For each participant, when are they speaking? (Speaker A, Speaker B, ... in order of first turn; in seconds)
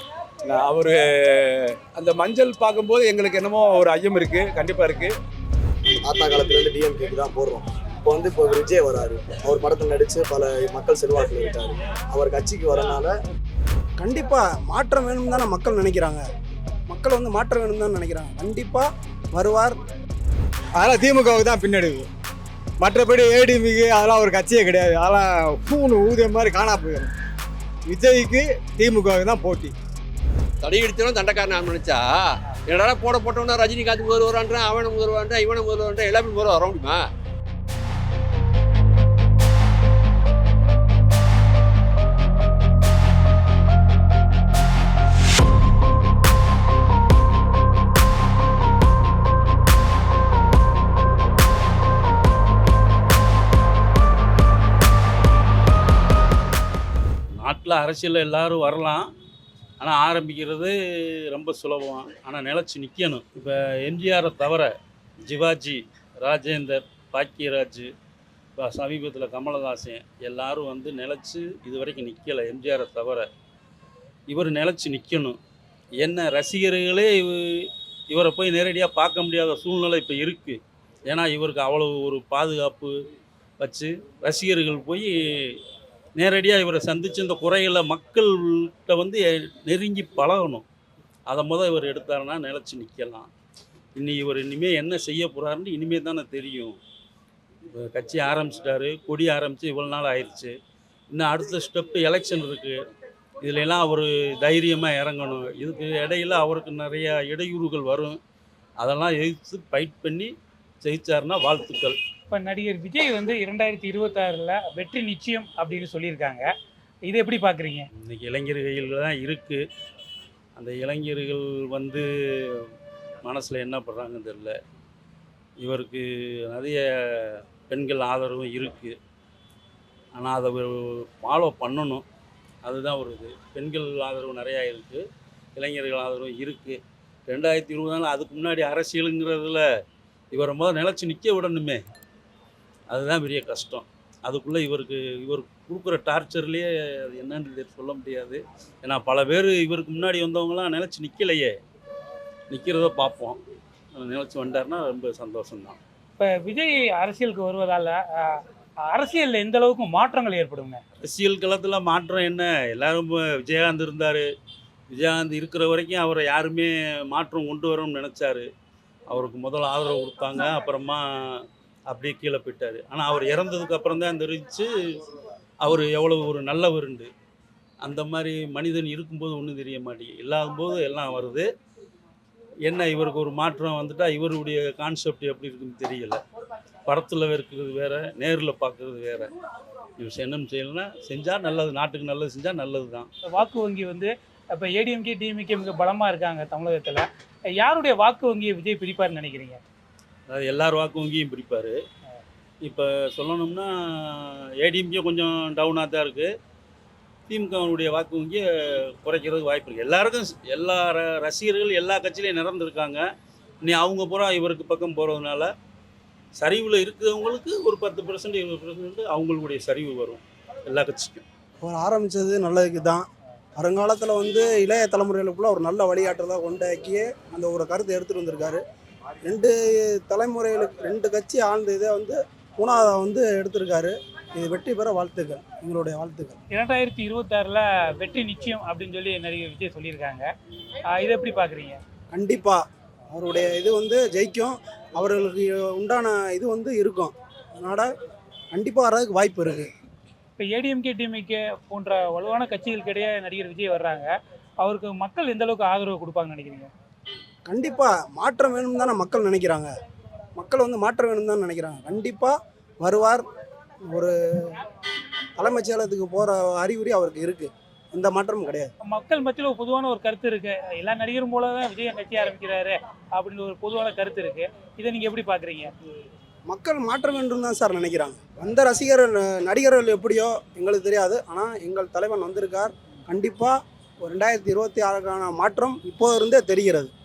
Speaker A: 0.5-5.1
Speaker B: 6.0-13.1
Speaker C: 14.0-16.2, 16.9-19.8, 221.6-228.6, 229.2-236.4, 242.1-247.9, 248.5-249.7, 257.5-259.7, 260.4-263.2, 263.9-264.6, 265.4-268.7, 276.5-286.9
Speaker D: 20.8-22.1, 22.8-27.1, 27.9-29.7
Speaker E: 30.6-37.0
Speaker F: 57.4-59.0, 59.8-60.7, 61.3-64.7, 65.2-67.9, 68.6-73.2, 74.3-75.4, 76.0-77.3, 78.1-80.5, 81.1-82.9, 83.6-85.0, 86.2-90.6, 91.3-93.3, 94.0-96.8, 97.7-100.5, 101.1-102.7, 103.4-108.1, 108.8-110.3, 110.8-111.9, 118.0-119.6, 120.6-122.0, 123.2-124.5, 125.6-126.8, 127.6-128.9, 130.2-132.0, 132.6-135.0, 135.6-139.6, 140.3-141.8, 142.9-151.4, 152.5-153.4, 153.9-155.8, 161.0-164.2, 164.9-168.4, 169.1-170.9, 171.9-174.6, 175.6-177.1, 177.8-181.4, 182.7-186.1, 186.9-189.2, 190.0-193.1, 200.3-201.7, 202.7-203.7, 204.7-206.2, 207.3-208.4, 209.0-213.0, 213.6-215.3, 216.4-221.2
Speaker G: 112.3-116.5, 117.1-117.9, 156.2-158.4, 158.9-160.8, 193.2-197.1, 197.6-199.6, 236.5-240.3, 240.9-241.8, 250.4-254.1, 254.6-256.7, 268.8-275.7